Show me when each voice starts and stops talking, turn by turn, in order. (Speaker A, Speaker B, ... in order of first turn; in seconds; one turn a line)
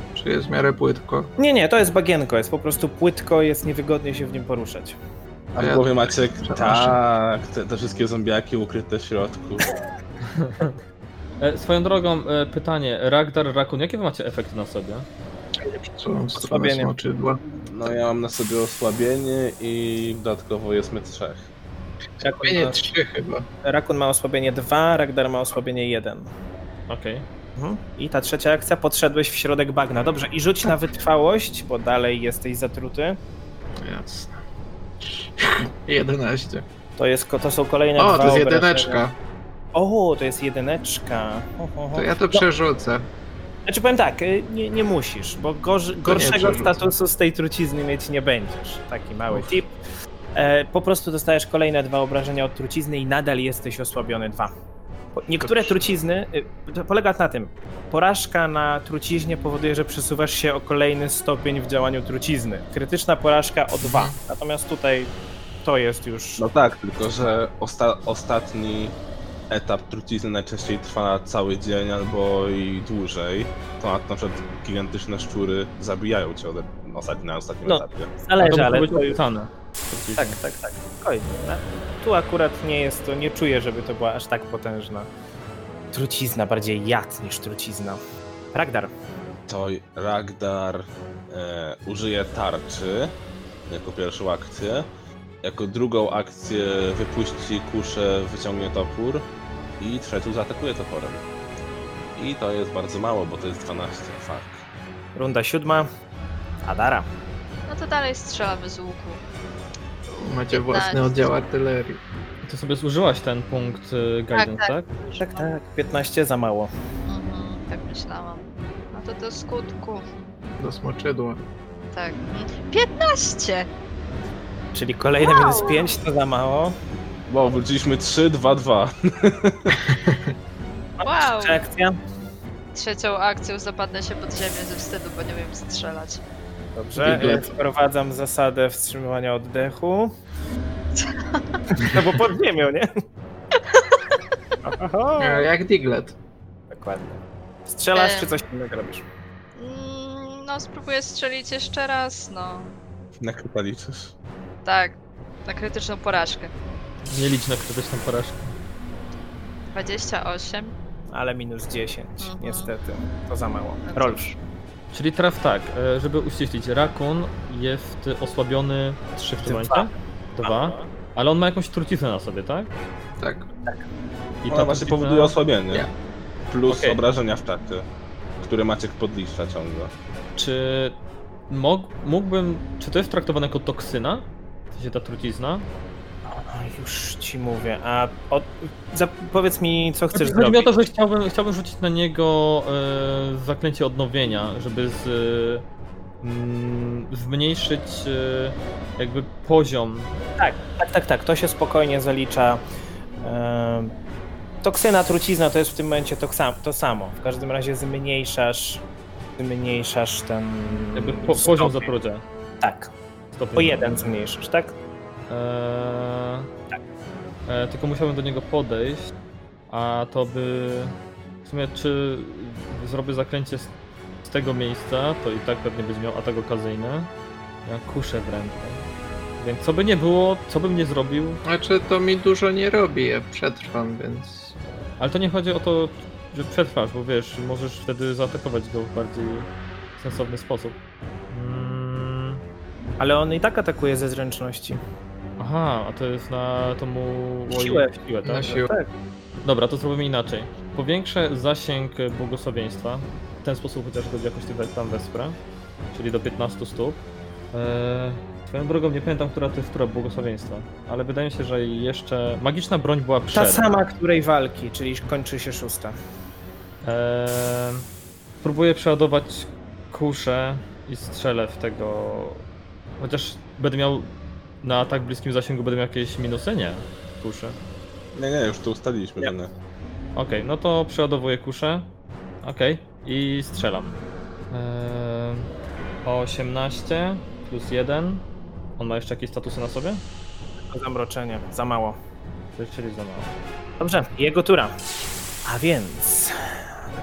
Speaker A: 0.1-1.3
Speaker B: 1.4-5.0
Speaker C: 5.5-9.7
Speaker A: 5.6-7.0
Speaker D: 10.3-10.7
Speaker D: 11.4-15.1
Speaker A: 15.6-17.4
Speaker B: 16.4-16.9
Speaker C: 17.7-21.5
Speaker B: 22.2-22.8
Speaker A: 22.3-23.5
Speaker B: 23.6-26.3
Speaker D: 26.9-27.2
Speaker B: 27.6-33.2
Speaker A: 33.8-34.4
Speaker A: 35.0-36.6
Speaker B: 37.0-39.0
Speaker A: 38.0-39.1
Speaker B: 39.7-42.5
Speaker A: 42.0-43.1
Speaker B: 43.7-49.8
Speaker A: 46.1-46.8
Speaker B: 50.4-54.5
Speaker B: 55.2-65.1
Speaker A: 63.8-64.2
Speaker B: 65.6-66.5
Speaker C: 66.4-69.0
Speaker C: 69.5-78.1
Speaker B: 77.7-79.2
Speaker D: 78.4-80.4
Speaker B: 80.2-85.1
Speaker B: 85.9-88.0
Speaker B: 88.5-88.9
Speaker C: 89.5-93.1
Speaker C: 93.7-94.9
Speaker C: 95.4-99.3
Speaker C: 99.8-101.2
Speaker C: 102.2-104.6
Speaker B: 105.2-105.9
Speaker B: 106.6-107.1
Speaker E: 107.7-109.2
Speaker A: 110.2-112.0
Speaker E: 110.5-111.3
Speaker D: 112.5-114.9
Speaker E: 114.3-115.5
Speaker B: 115.2-116.7
Speaker E: 117.1-120.0
Speaker A: 120.6-121.4
Speaker E: 121.9-123.7
Speaker B: 124.7-126.8
Speaker E: 125.2-126.0
Speaker C: 127.3-129.9
Speaker A: 129.9-130.2
Speaker B: 131.0-132.0
Speaker E: 131.0-131.6
Speaker E: 132.7-136.2
Speaker B: 136.8-140.2
Speaker A: 137.0-137.5
Speaker E: 141.0-141.4
Speaker B: 141.7-142.9
Speaker E: 143.7-144.0
Speaker B: 144.6-145.5
Speaker A: 145.2-146.2
Speaker B: 146.7-149.1
Speaker E: 147.9-148.4
Speaker E: 149.6-152.8
Speaker C: 153.2-154.1
Speaker E: 154.7-156.5
Speaker D: 157.1-158.5
Speaker E: 159.7-160.7
Speaker B: 161.1-164.3
Speaker E: 162.2-162.7
Speaker E: 163.9-164.3
Speaker D: 164.9-172.7
Speaker B: 169.4-170.9
Speaker A: 173.2-173.5
Speaker D: 174.4-175.4
Speaker C: 174.5-175.9
Speaker C: 176.5-177.9
Speaker D: 176.7-177.0
Speaker C: 178.4-179.9
Speaker D: 180.4-180.9
Speaker D: 181.5-185.7
Speaker B: 186.3-190.7
Speaker D: 190.1-195.7
Speaker D: 196.2-200.2
Speaker B: 200.4-202.6
Speaker B: 203.2-203.9
Speaker B: 204.6-208.8
Speaker B: 209.4-211.9
Speaker D: 210.9-212.2
Speaker B: 212.6-212.9
Speaker D: 213.3-214.0
Speaker B: 213.6-214.7
Speaker D: 215.3-216.5
Speaker D: 217.5-219.1
Speaker D: 219.7-223.7
Speaker D: 224.2-227.1
Speaker D: 227.7-228.8
Speaker D: 229.4-231.4
Speaker A: 231.4-234.6
Speaker D: 235.0-240.8
Speaker D: 241.3-242.4
Speaker B: 243.0-244.8
Speaker D: 245.4-248.6
Speaker B: 247.5-248.9
Speaker A: 248.2-248.7
Speaker D: 249.4-255.4
Speaker D: 255.9-257.0
Speaker D: 257.5-263.8
Speaker B: 263.3-266.0
Speaker D: 266.8-267.9
Speaker D: 268.4-272.4
Speaker D: 273.0-277.6
Speaker C: 278.1-279.5
Speaker D: 280.1-281.9
Speaker D: 282.4-283.9
Speaker D: 284.5-285.5
Speaker D: 286.1-288.2
Speaker D: 288.8-290.0
Speaker B: 290.7-292.0
Speaker D: 292.6-293.3
Speaker B: 293.8-294.8
Speaker B: 295.4-296.7